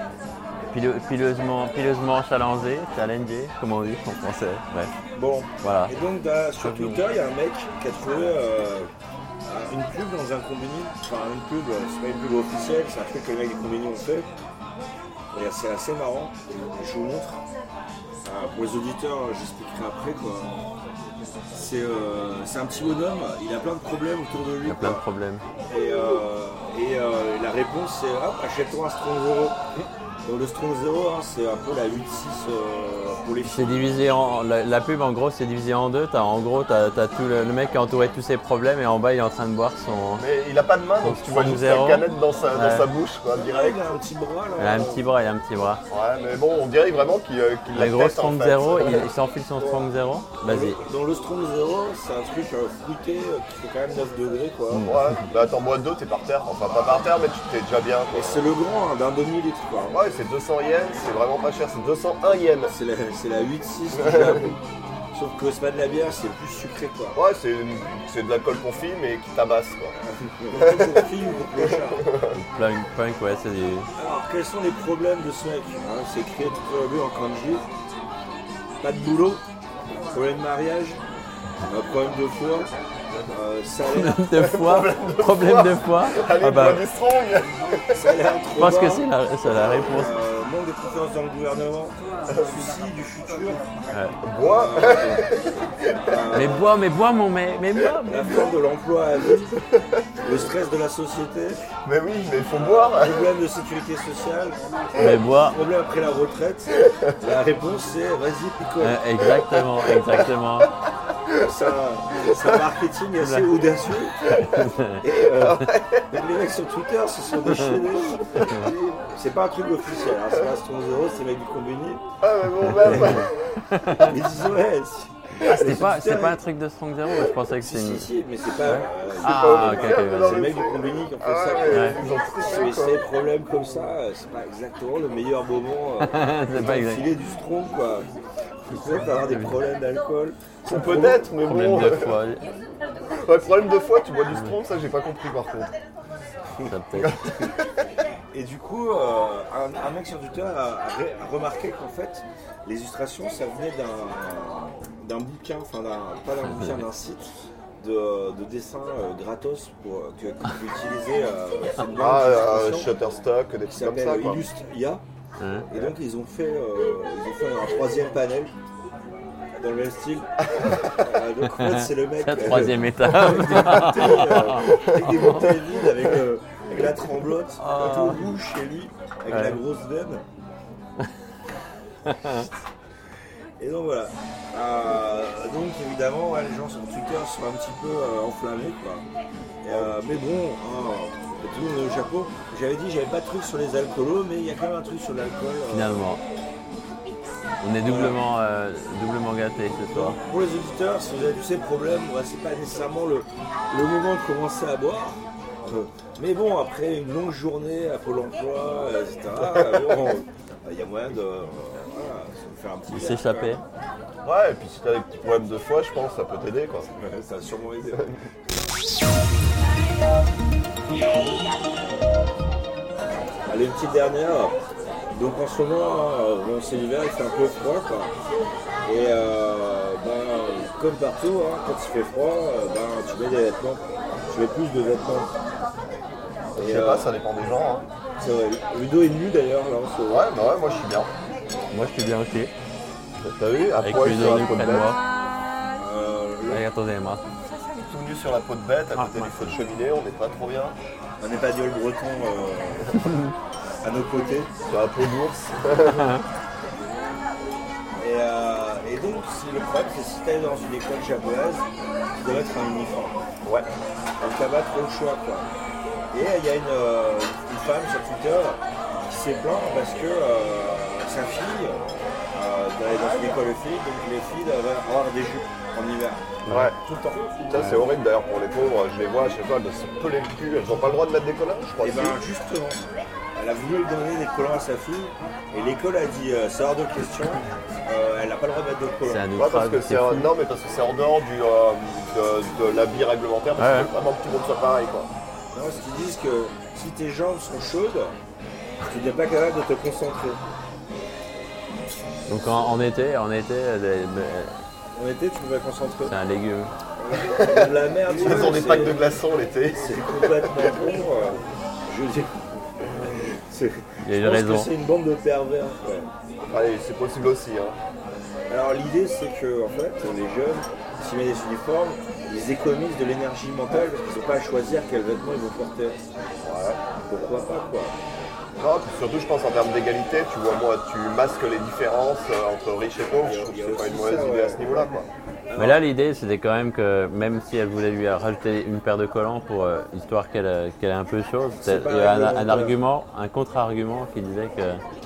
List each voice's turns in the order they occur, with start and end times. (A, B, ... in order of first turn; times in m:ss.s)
0:00.7-0:04.9 A
0:05.2-0:08.9 B
0:05.6-0:05.9 A
0:06.6-0:07.0 A
0:09.4-0:14.3 B
0:15.3-0:17.4 B
0:18.2-0:20.7 B
0:21.5-0:25.0 B
0:24.6-0:25.4 A
0:25.7-0:29.6 B
0:30.2-0:34.0 B
0:33.4-0:40.3 A
0:40.2-0:43.8 C
0:41.0-0:42.9 A
0:43.4-0:45.0 B
0:44.6-0:45.8 A
0:45.9-0:49.1 C
0:47.7-0:50.8 A
0:50.4-0:54.8 B
0:54.7-0:55.2 A
0:54.8-0:58.5 C
0:58.1-1:00.0 B
0:59.9-1:02.7 C
1:02.7-1:04.6 B
1:04.0-1:04.4 C
1:05.1-1:07.2 B
1:07.2-1:10.0 C
1:10.0-1:12.1 B
1:10.5-1:11.0 C
1:11.6-1:12.4 C
1:12.3-1:13.9 A
1:14.0-1:17.7 B
1:18.8-1:19.4 B
1:20.0-1:21.0 B
1:21.7-1:22.7 B
1:23.3-1:24.2 B
1:23.9-1:26.8 A
1:24.3-1:28.2 C
1:27.9-1:29.1 B
1:28.6-1:30.2 A
1:29.5-1:30.1 C
1:29.9-1:35.4 B
1:34.2-1:36.4 C
1:35.9-1:36.7 B
1:36.3-1:38.5 A
1:38.1-1:39.6 B
1:39.5-1:40.2 C
1:40.2-1:41.6 B
1:41.8-1:43.3 C
1:42.5-1:49.0 B
1:45.0-1:45.6 A
1:46.8-1:47.1 C
1:48.8-1:50.7 A
1:49.3-1:50.7 C
1:51.4-1:54.3 B
1:53.2-1:53.6 A
1:54.2-1:54.7 C
1:54.3-1:55.0 A
1:55.0-2:02.0 B
1:55.3-1:56.2 C
1:58.4-1:58.7 A
2:02.2-2:03.7 C
2:02.6-2:04.2 A
2:02.8-2:03.2 B
2:03.9-2:06.4 B
2:05.4-2:08.1 A
2:07.5-2:18.1 B
2:08.6-2:10.5 A
2:09.2-2:13.0 C
2:11.7-2:12.0 A
2:16.0-2:17.1 A
2:18.7-2:21.2 B
2:20.7-2:22.2 C
2:21.4-2:22.4 A
2:23.2-2:25.7 C
2:26.7-2:27.5 A
2:27.0-2:27.7 C
2:28.3-2:42.9 B
2:36.4-2:36.8 A
2:42.0-2:44.5 C
2:43.7-2:45.0 B
2:45.4-2:45.7 A
2:45.7-2:48.5 B
2:49.6-3:00.2 B
2:52.2-2:55.5 A
2:54.6-2:55.1 C
2:57.6-2:58.2 A
2:59.3-2:59.6 A
3:02.0-3:02.5 A
3:03.6-3:09.1 B
3:09.6-3:16.0 B
3:15.7-3:16.2 A
3:17.6-3:20.2 A
3:17.8-3:18.2 B
3:19.9-3:33.6 B
3:32.9-3:33.6 A
3:34.2-3:36.9 C
3:37.0-3:38.2 B
3:43.5-3:44.6 B
3:45.1-3:48.1 B
3:48.8-3:55.3 B
3:56.6-3:57.1 B
3:56.6-3:57.9 C
3:58.2-4:00.3 B
4:00.1-4:01.1 C
4:01.7-4:02.5 A
4:03.3-4:05.0 C
4:03.8-4:05.0 A
4:05.8-4:06.6 B
4:06.5-4:07.2 A
4:07.9-4:10.8 C
4:09.0-4:09.5 A
4:11.2-4:13.1 B
4:13.8-4:14.5 B
4:14.7-4:16.1 C
4:15.8-4:16.2 A
4:18.0-4:21.7 B
4:22.2-4:23.2 B
4:24.2-4:25.5 B
4:26.1-4:37.5 B
4:36.4-4:36.7 A
4:36.5-4:36.8 C
4:37.5-4:42.2 C
4:37.5-4:37.8 A
4:41.8-4:42.8 B
4:43.4-4:49.3 B
4:49.1-4:50.3 A
4:49.4-4:55.1 C
4:53.6-4:53.9 A
4:55.5-4:58.2 B
4:58.9-5:00.4 B
5:02.3-5:04.5 A
5:05.0-5:06.2 B
5:06.1-5:06.7 A
5:07.0-5:09.0 B
5:07.3-5:10.7 C
5:09.7-5:16.1 B
5:14.0-5:14.7 A
5:16.4-5:17.8 C
5:18.5-5:26.0 B
5:26.4-5:26.8 C
5:27.1-5:28.0 B
5:28.6-5:35.1 C
5:33.2-5:34.9 B
5:35.5-5:35.8 B
5:35.6-5:44.8 A
5:41.6-5:42.8 B